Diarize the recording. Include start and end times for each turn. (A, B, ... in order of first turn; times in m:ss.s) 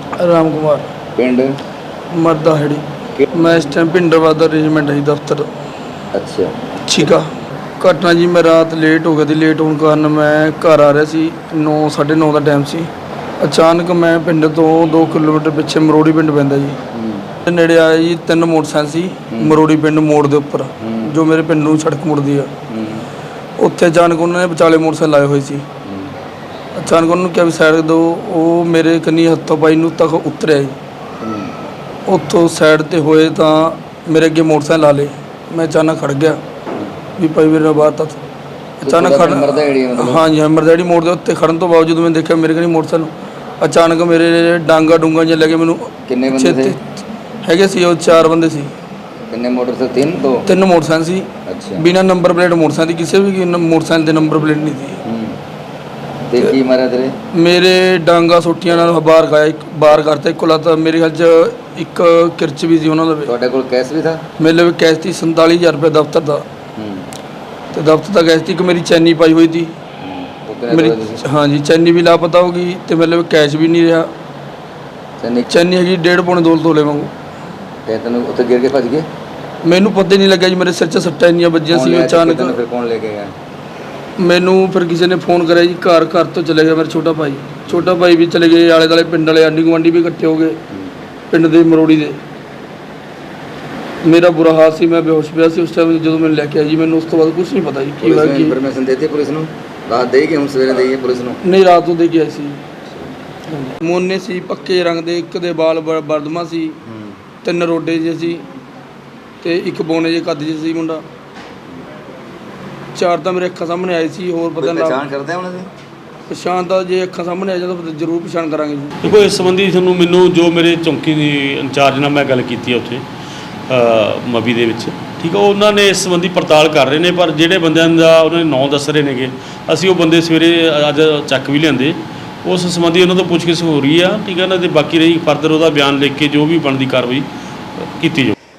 0:00.1-0:01.0 A
0:01.1-0:01.6 B
0:02.1-0:05.5 A
0:06.1-0:06.6 B
0:06.8-0:16.8 A
0:16.9-0:17.3 B
0:17.4-0:22.5 A
0:19.3-0:19.6 B
0:20.8-0:21.1 B
0:22.7-0:23.1 B
0:23.6-0:25.7 A
0:25.8-0:26.1 B
0:26.8-0:30.8 A
0:31.2-0:31.5 B
0:32.1-0:36.4 A
0:37.2-0:38.2 A
0:38.8-0:46.8 A
0:38.8-0:40.2 B
0:46.0-0:46.8 B
0:47.4-0:48.7 A
0:49.3-0:50.4 B
0:50.4-0:55.0 A
0:51.4-0:51.9 B
0:55.0-0:55.4 B
0:56.3-0:57.1 B
0:57.3-1:03.3 A
1:03.3-1:04.2 B
1:04.4-1:06.4 A
1:06.8-1:07.1 B
1:07.7-1:09.7 A
1:10.0-1:11.2 B
1:10.7-1:14.1 A
1:15.2-1:15.5 B
1:15.5-1:17.1 A
1:17.8-1:19.1 B
1:19.6-1:22.6 A
1:21.7-1:23.3 B
1:24.2-1:30.6 A
1:31.3-1:32.2 A
1:34.0-1:38.6 A
1:38.0-1:41.4 B
1:41.4-1:42.6 A
1:43.5-1:46.8 A
1:46.8-1:47.2 B
1:47.4-1:48.4 A
1:49.4-1:51.0 A
1:52.9-1:55.0 A
1:54.6-1:55.7 B
1:56.3-1:59.0 A
1:59.0-2:03.0 C
2:03.7-2:17.3 C
2:17.8-2:18.3 C